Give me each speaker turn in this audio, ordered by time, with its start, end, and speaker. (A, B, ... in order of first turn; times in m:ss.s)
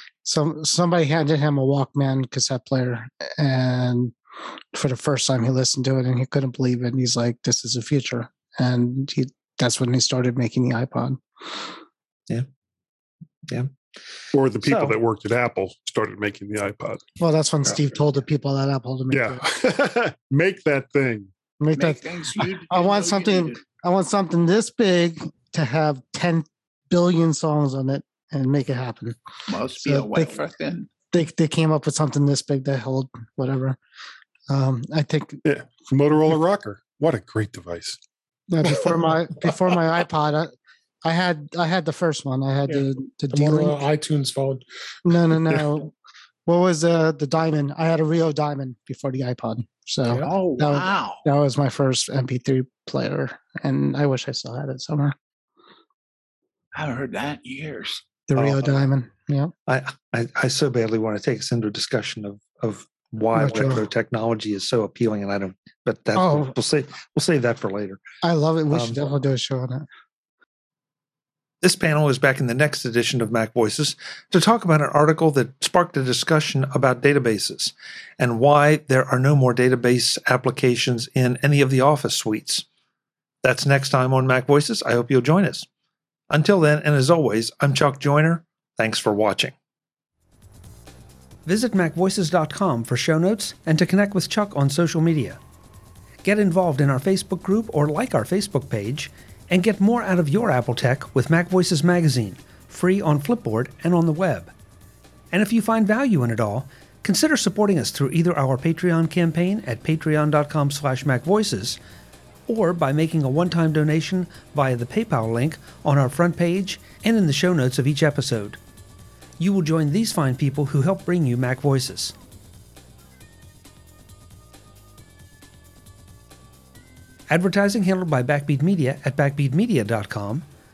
0:00.2-0:04.1 A
0:04.7-0:11.7 A
0:14.3-0:17.0 B
0:14.6-0:15.0 C
0:17.2-0:19.4 A
0:19.1-0:21.3 B
0:21.6-0:29.2 A
0:21.7-0:23.6 D
0:29.5-0:30.9 D
0:29.8-0:30.4 A
0:31.1-0:33.8 A
0:34.5-0:35.4 A
0:35.4-0:38.0 B
0:38.5-0:40.5 A
0:41.0-0:43.8 A
0:42.7-0:44.6 E
0:45.0-0:45.9 A
0:46.5-0:55.1 A
0:50.2-0:51.2 D
0:56.7-0:58.0 D
0:58.3-0:59.5 A
0:58.3-0:58.8 C
0:59.7-1:08.0 C
1:03.3-1:03.8 A
1:06.2-1:06.5 A
1:08.2-1:09.8 A
1:08.7-1:09.0 C
1:11.6-1:22.6 C
1:23.4-1:25.7 C
1:26.3-1:29.5 C
1:31.4-1:35.4 C
1:36.2-1:44.5 C
1:45.3-1:51.8 C
1:52.5-1:58.6 C
1:59.4-2:02.1 C
2:07.3-2:10.4 C